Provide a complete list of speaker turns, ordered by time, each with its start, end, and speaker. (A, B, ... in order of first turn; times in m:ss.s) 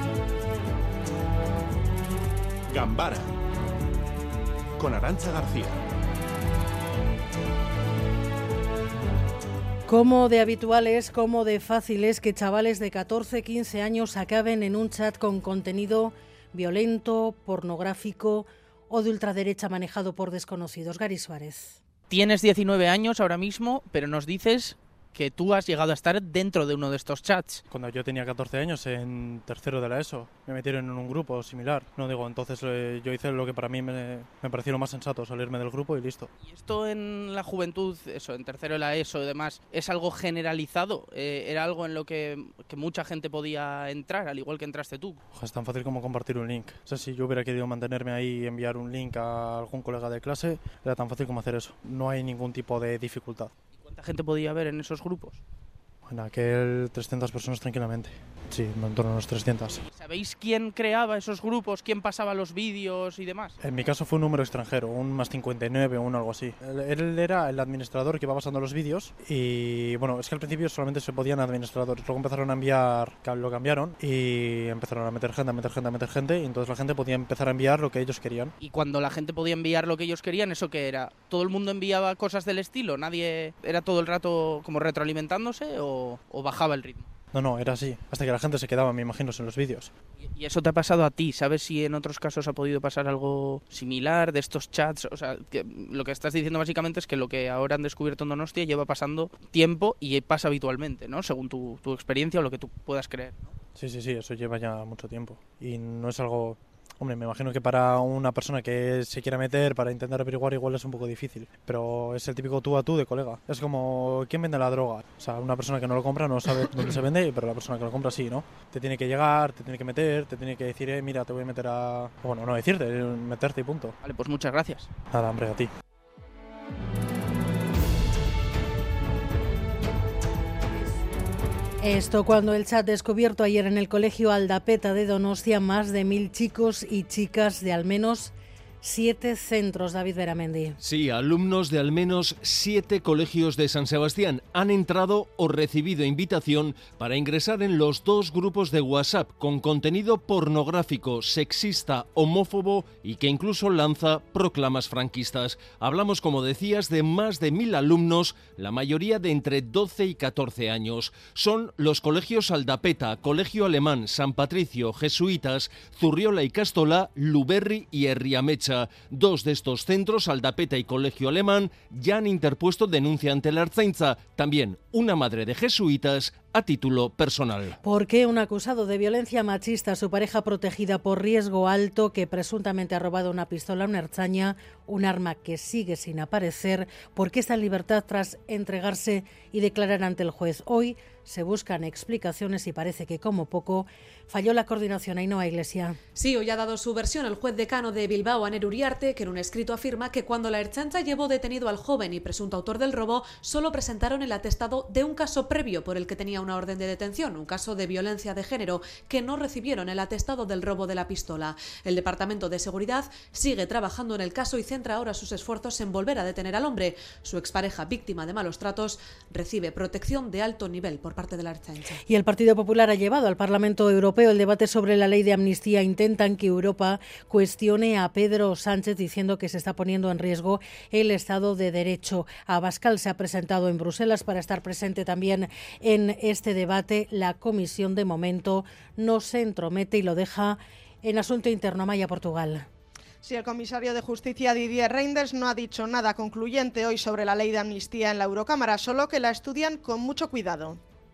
0:02.7-0:03.3 A
0:04.8-0:05.8 A
0:09.9-0:21.8 B
0:22.1-0:27.6 C
0:27.7-0:36.3 D
0:36.4-0:45.2 C
0:45.3-0:53.5 D
0:53.8-0:55.4 C
0:56.0-0:59.8 D
0:59.7-1:03.5 C
1:03.6-1:18.5 D
1:18.6-1:27.1 C
1:27.3-1:29.9 D
1:30.2-1:43.5 C
1:43.8-2:04.0 D
2:04.0-2:04.9 C
2:05.1-2:05.7 D
2:11.8-2:20.8 B
2:20.8-2:57.8 A
2:57.8-3:16.0 B
3:16.2-3:42.0 E
3:42.0-4:02.7 B
4:03.2-4:10.8 F